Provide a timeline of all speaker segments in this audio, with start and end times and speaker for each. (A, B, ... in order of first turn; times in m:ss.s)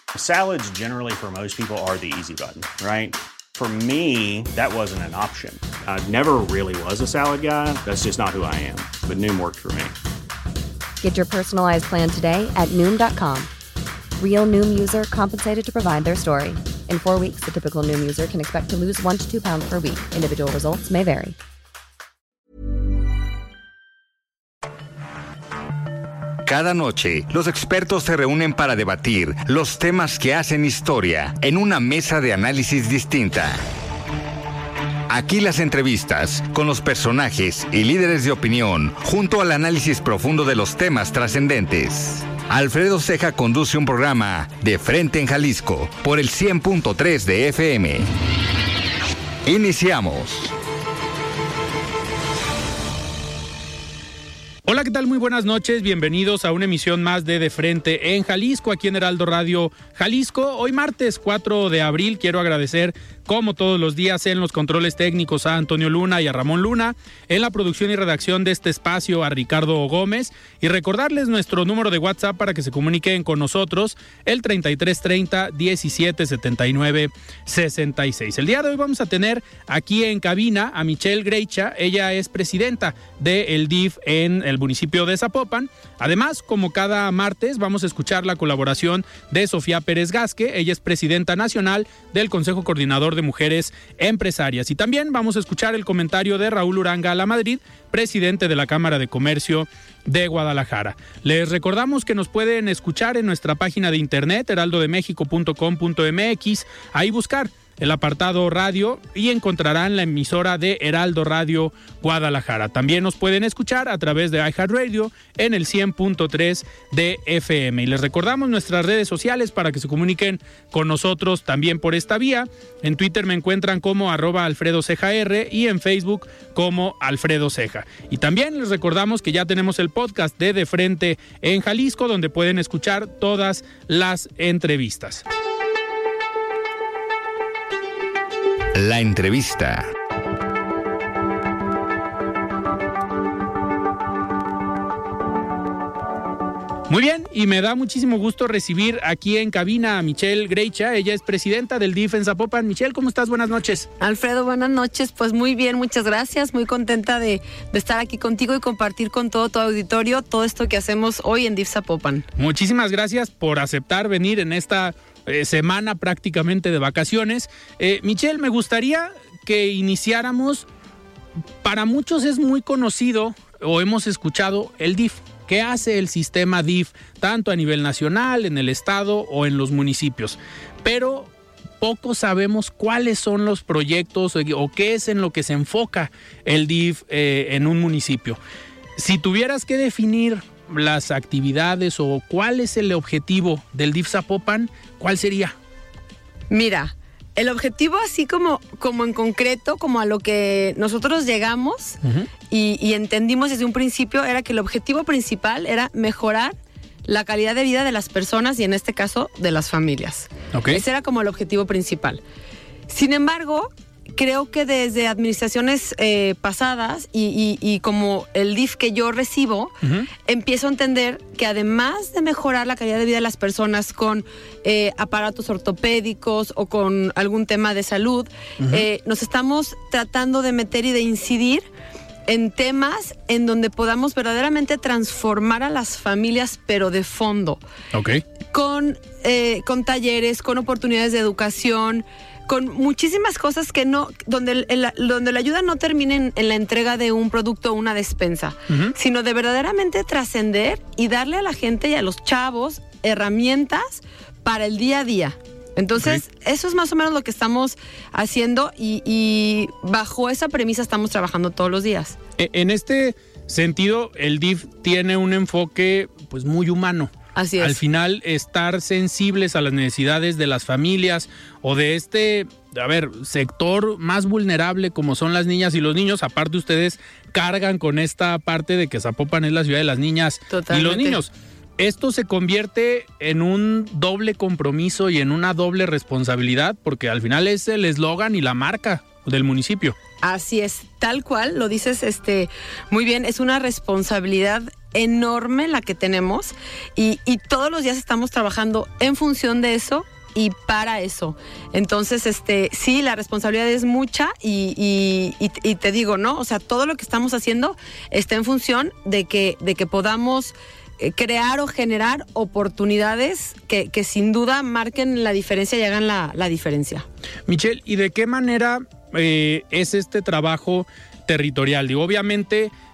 0:00.1-0:09.9 A
0:11.0-0:13.5 B
0:14.2-0:21.4 B
0:26.4-0:33.6 C
0:35.1-0:48.1 C
0:49.4-0:50.5 C
0:54.6-2:15.2 D
2:18.7-2:19.9 C
2:26.9-2:33.9 D
2:34.0-2:42.3 E
2:42.4-2:50.6 D
2:51.6-3:01.3 D
3:01.8-3:08.4 D
3:09.0-3:15.5 D
3:16.5-3:22.0 E
3:22.5-3:26.5 E
3:27.0-3:32.2 E
3:30.5-3:30.8 D
3:32.9-3:51.6 E
3:48.6-3:48.8 D
3:52.3-3:57.6 E
3:57.9-3:58.2 D
3:58.5-4:22.2 E
4:08.7-4:08.9 D
4:16.0-4:16.2 D
4:22.4-4:49.9 D
4:27.4-4:27.8 E
4:40.5-4:41.2 E
4:50.2-5:17.0 E
5:17.5-5:22.7 D